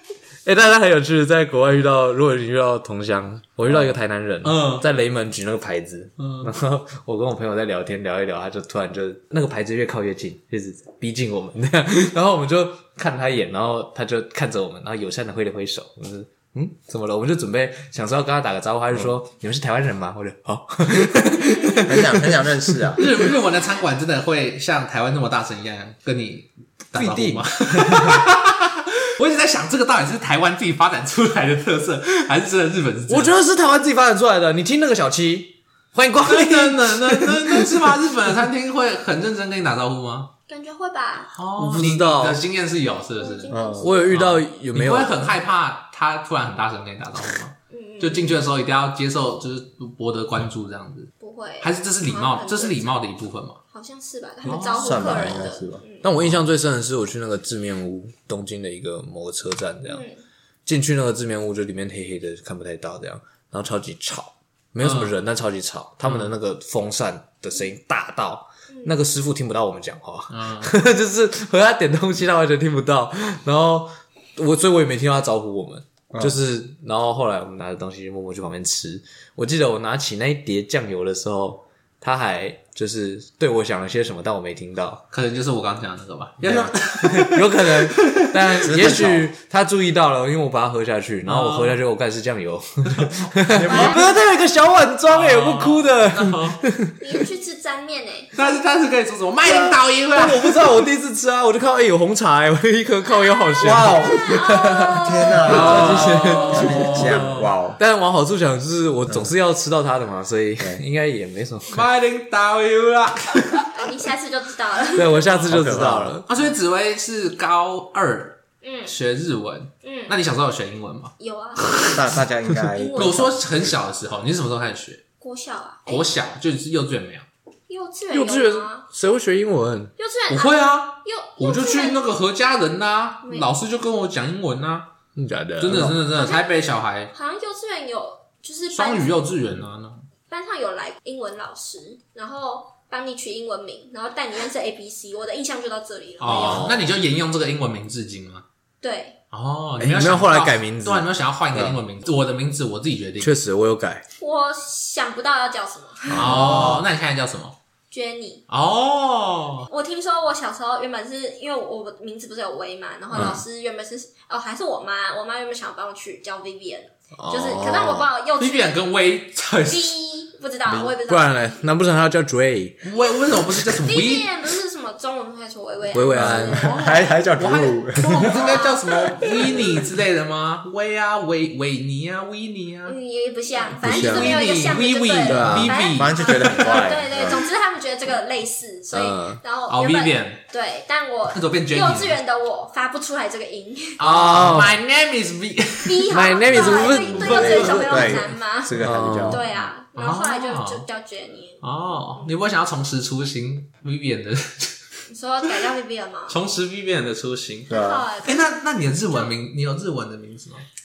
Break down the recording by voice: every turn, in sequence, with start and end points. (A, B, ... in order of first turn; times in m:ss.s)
0:00.4-0:23.0 A
0:04.4-0:04.9 B
0:06.2-0:06.5 B
0:21.8-0:23.0 C
0:23.0-0:33.4 B
0:26.9-0:28.3 A
0:33.1-0:38.0 A
0:36.2-0:40.3 B
0:40.5-0:41.3 D
0:41.4-0:53.6 B
0:41.6-0:42.4 A
0:43.2-0:44.0 D
0:43.5-0:44.0 C
0:43.8-0:45.3 A
0:47.7-0:48.4 D
0:51.2-0:53.0 D
0:53.7-0:56.1 D
0:54.4-0:55.3 B
0:54.5-0:55.8 C
0:56.0-1:00.0 A
0:59.9-1:00.2 D
1:00.7-1:25.0 A
1:04.8-1:05.1 B
1:06.0-1:06.3 B
1:08.7-1:09.0 D
1:10.3-1:10.7 B
1:25.1-1:28.6 B
1:26.4-1:26.7 C
1:26.5-1:37.3 A
1:28.6-1:29.3 C
1:31.2-1:31.8 B
1:32.9-1:33.9 B
1:33.5-1:34.1 C
1:33.6-1:34.0 D
1:35.1-1:36.6 B
1:37.0-1:38.4 D
1:38.3-1:40.7 B
1:39.5-1:51.9 A
1:43.1-1:46.0 D
1:43.6-1:47.8 C
1:45.4-1:47.5 B
1:51.7-1:53.6 B
1:53.7-1:55.4 D
1:54.9-1:56.3 A
1:55.5-1:56.2 C
1:56.3-2:01.1 B
1:58.6-1:58.9 D
1:59.8-2:00.2 D
2:01.2-2:02.0 D
2:01.7-2:03.4 C
2:02.7-2:03.3 D
2:03.0-2:05.0 B
2:05.2-2:06.1 D
2:05.9-2:07.3 B
2:07.7-2:09.0 D
2:08.1-2:09.9 A
2:10.0-2:12.2 D
2:10.3-2:14.9 B
2:15.2-2:16.0 A
2:15.6-2:17.1 B
2:16.1-2:16.5 D
2:17.1-2:19.2 D
2:18.7-2:20.0 B
2:20.3-2:26.9 D
2:26.2-2:28.4 B
2:26.3-2:26.9 A
2:28.8-2:29.2 D
2:29.3-2:33.3 B
2:29.8-2:31.1 A
2:33.2-2:34.0 A
2:34.2-2:36.5 D
2:36.1-2:37.6 B
2:36.2-2:36.8 C
2:36.2-2:36.8 A
2:37.9-2:38.4 D
2:38.5-2:39.7 B
2:39.7-2:48.9 D
2:43.1-2:43.4 C
2:43.1-2:43.4 A
2:47.2-2:48.1 A
2:48.4-2:50.0 B
2:49.7-2:51.6 D
2:50.7-2:50.9 C
2:51.0-2:52.8 A
2:52.8-2:54.3 B
2:53.0-2:57.1 D
2:55.9-2:56.7 A
2:56.1-2:58.6 C
2:56.6-3:03.0 B
2:58.0-2:59.7 D
2:59.4-2:59.7 C
3:02.8-3:14.0 D
3:03.8-3:04.5 A
3:03.8-3:06.9 B
3:05.2-3:05.8 A
3:05.9-3:07.5 C
3:08.9-3:09.4 A
3:09.7-3:10.4 B
3:11.3-3:12.2 B
3:14.0-3:18.2 B
3:14.0-3:14.8 A
3:15.8-3:22.3 D
3:16.1-3:17.7 A
3:17.0-3:19.4 C
3:18.8-3:19.4 A
3:20.0-3:20.8 B
3:21.6-3:24.8 B
3:25.1-3:26.4 D
3:26.3-3:30.6 B
3:27.7-3:28.1 C
3:27.7-3:29.3 D